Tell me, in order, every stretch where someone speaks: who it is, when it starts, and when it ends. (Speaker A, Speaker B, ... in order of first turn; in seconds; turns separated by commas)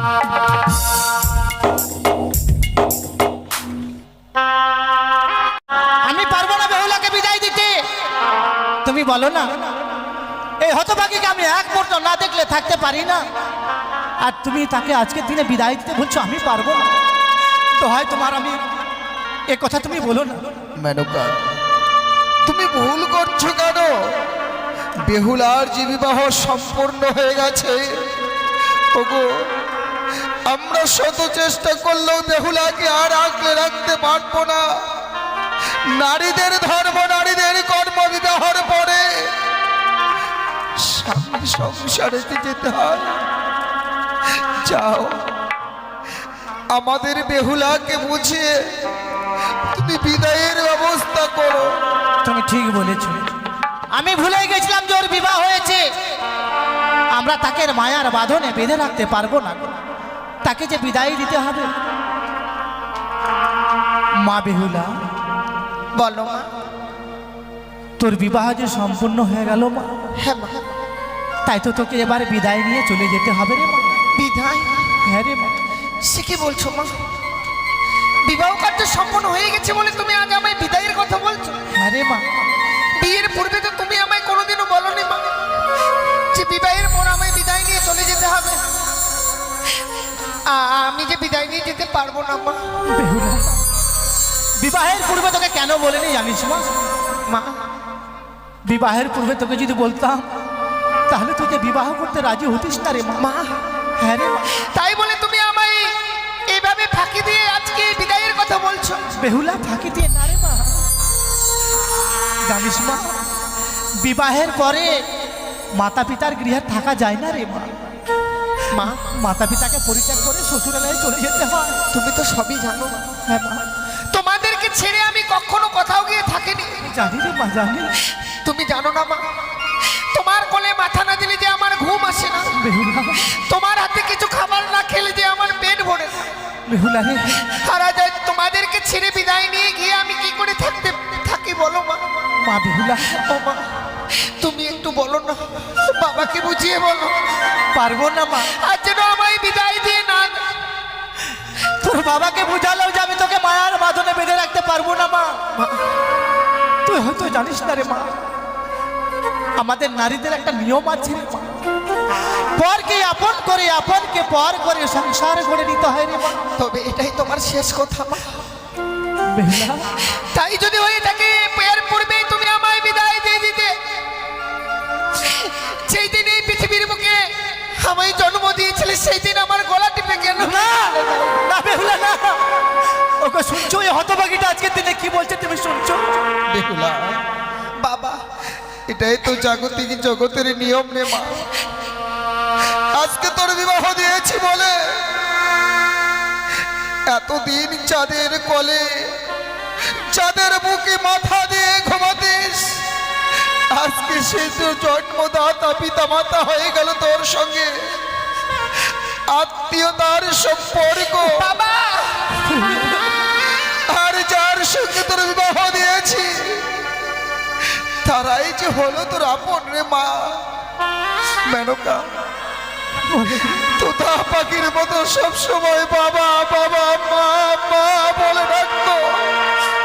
Speaker A: 6.0-7.9, Speaker A: 8.8-9.7, Speaker A: 10.6-13.3, Speaker A: 14.2-16.9, Speaker A: 17.8-18.6, Speaker A: 19.5-20.6, Speaker B: 20.8-21.5, Speaker B: 22.4-24.1, Speaker B: 25.1-28.1, Speaker B: 28.9-29.3, Speaker B: 30.5-34.7, Speaker B: 35.9-39.4, Speaker B: 40.8-43.2, Speaker B: 44.4-45.3, Speaker B: 46.7-48.9, Speaker B: 49.7-51.8, Speaker A: 52.2-53.3, Speaker A: 53.9-55.9, Speaker A: 57.1-59.8, Speaker A: 60.4-61.8, Speaker A: 64.2-65.0, Speaker C: 66.0-66.5, Speaker A: 68.0-70.1, Speaker C: 70.2-70.7, Speaker A: 71.5-74.0, Speaker C: 74.2-74.9, Speaker A: 75.0-75.6, Speaker C: 76.0-77.0, Speaker C: 78.2-81.6, Speaker A: 81.7-82.3, Speaker C: 83.0-85.3, Speaker C: 86.3-88.6, Speaker C: 90.5-92.6, Speaker A: 92.9-93.7, Speaker A: 94.6-96.7, Speaker C: 97.3-97.6, Speaker A: 98.7-100.5, Speaker A: 101.1-103.3, Speaker C: 103.2-103.6, Speaker A: 104.0-104.6, Speaker C: 104.5-109.1, Speaker A: 109.1-110.9, Speaker A: 112.5-113.2, Speaker A: 114.0-115.1, Speaker A: 115.7-117.8, Speaker C: 118.7-119.0, Speaker A: 119.0-121.8, Speaker C: 121.9-123.2, Speaker A: 123.3-123.8, Speaker C: 124.1-126.9, Speaker A: 126.8-128.0, Speaker C: 128.2-129.2, Speaker C: 129.8-132.6, Speaker A: 132.6-133.2, Speaker C: 133.2-136.3, Speaker A: 136.7-137.5, Speaker C: 137.4-142.0, Speaker A: 142.4-143.3, Speaker C: 143.1-147.2, Speaker A: 147.7-148.5, Speaker C: 148.5-150.4, Speaker A: 151.8-155.4, Speaker C: 155.5-155.8, Speaker A: 156.8-158.2, Speaker A: 159.6-161.6, Speaker A: 162.5-166.4, Speaker C: 166.6-168.4, Speaker A: 169.3-170.0, Speaker C: 170.1-173.8, Speaker C: 175.2-181.4, Speaker A: 180.4-186.2, Speaker B: 186.5-187.2, Speaker C: 187.8-188.2, Speaker B: 188.9-191.5, Speaker B: 192.9-195.2, Speaker B: 197.1-199.2, Speaker B: 199.9-202.8, Speaker B: 203.7-208.0, Speaker B: 209.3-211.4, Speaker C: 211.2-212.4, Speaker A: 212.5-213.0, Speaker B: 213.9-216.8, Speaker B: 218.0-220.5, Speaker B: 221.5-222.1, Speaker A: 223.1-223.8, Speaker B: 223.7-229.4